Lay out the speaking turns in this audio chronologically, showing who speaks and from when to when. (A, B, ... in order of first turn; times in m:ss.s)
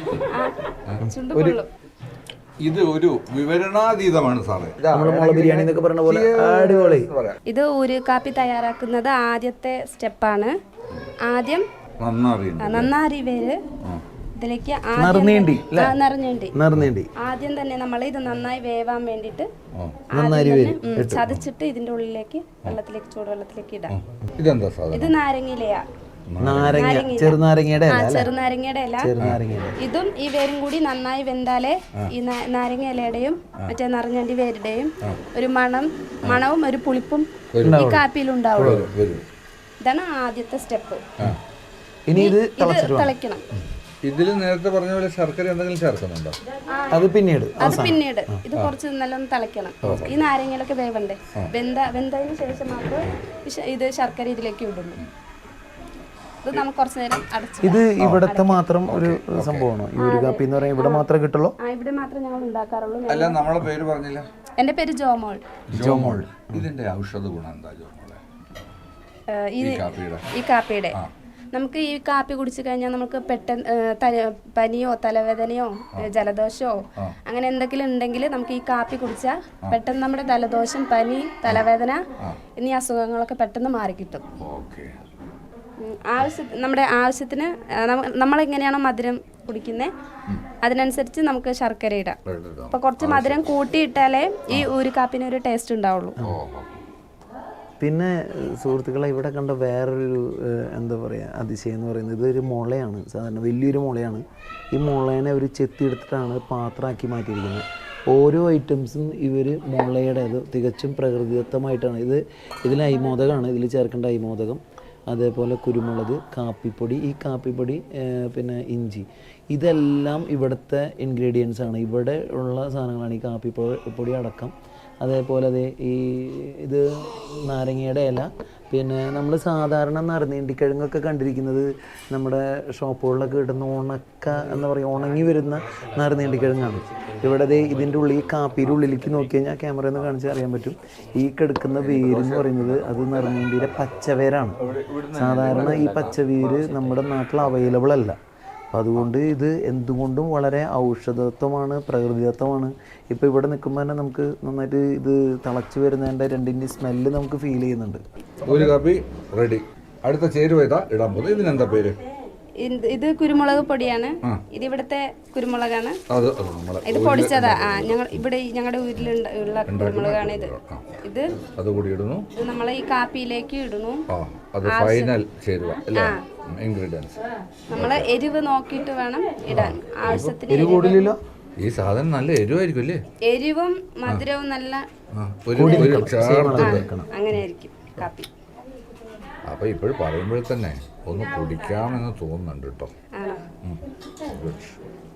0:00.1-0:01.7 A
0:01.0-0:01.6 B
0:02.6-0:07.4 C
0:04.9-0:07.1 B
0:07.5-0:10.5 A
0:11.2-0:11.6 A
0:12.0-0:12.9 C
0:12.6-0:13.6 A
0:14.4-0:16.5 A
0:15.0-0:16.0 B
0:16.5-0:17.1 B
0:17.2-0:19.5 A
0:19.7-0:20.0 C
0:20.1-0:21.2 B
0:20.1-0:23.9 A
0:23.9-0:25.1 C
0:24.9-0:25.8 A
0:26.3-0:26.8 C
0:26.4-0:28.3 B
0:26.7-0:27.4 A
0:27.9-0:29.1 A
0:29.0-0:29.8 B
0:29.8-0:38.8 A
0:37.5-0:37.8 C
0:37.6-0:38.0 B
0:38.6-0:38.9 B
0:38.6-0:39.2 C
0:39.8-0:41.0 A
0:42.1-0:43.1 B
0:42.1-0:43.4 A
0:44.0-0:46.4 C
0:46.7-0:47.0 A
0:46.9-0:48.4 B
0:47.6-0:55.0 A
0:49.8-0:50.1 B
0:49.8-0:50.2 C
0:56.4-0:58.6 A
0:57.6-1:01.5 B
0:58.0-0:58.3 C
0:58.8-0:59.7 C
1:00.0-1:01.0 A
1:01.6-1:03.4 A
1:03.1-1:04.2 C
1:04.6-1:05.4 A
1:05.7-1:08.2 C
1:05.7-1:06.6 B
1:09.3-1:11.0 A
1:09.6-1:10.3 C
1:11.5-1:22.0 A
1:22.6-1:24.2 A
1:24.4-1:25.0 C
1:25.8-1:29.9 A
1:30.6-1:32.2 A
1:32.2-1:33.5 C
1:32.7-1:36.2 A
1:36.2-1:36.8 C
1:37.8-2:24.6 B
2:21.8-2:23.6 C
2:24.6-2:26.2 C
2:25.1-2:28.2 B
2:28.7-2:38.0 B
2:38.4-2:42.0 C
2:42.6-2:46.0 A
2:46.1-2:48.2 C
2:46.8-2:50.5 A
2:49.7-2:50.9 C
2:51.0-2:51.3 A
2:51.6-2:52.2 C
2:52.3-2:54.0 A
2:54.1-2:57.2 C
2:54.6-2:55.1 A
2:56.0-2:56.2 A
2:57.7-3:01.1 A
2:57.7-2:58.1 C
2:59.5-3:00.3 C
3:00.5-3:01.2 B
3:01.6-3:03.0 C
3:03.2-3:04.8 A
3:05.1-3:06.9 C
3:05.5-3:07.1 B
3:05.6-3:06.1 A
3:06.6-3:08.3 A
3:09.4-3:12.9 C
3:13.1-3:13.4 A
3:13.6-3:14.8 C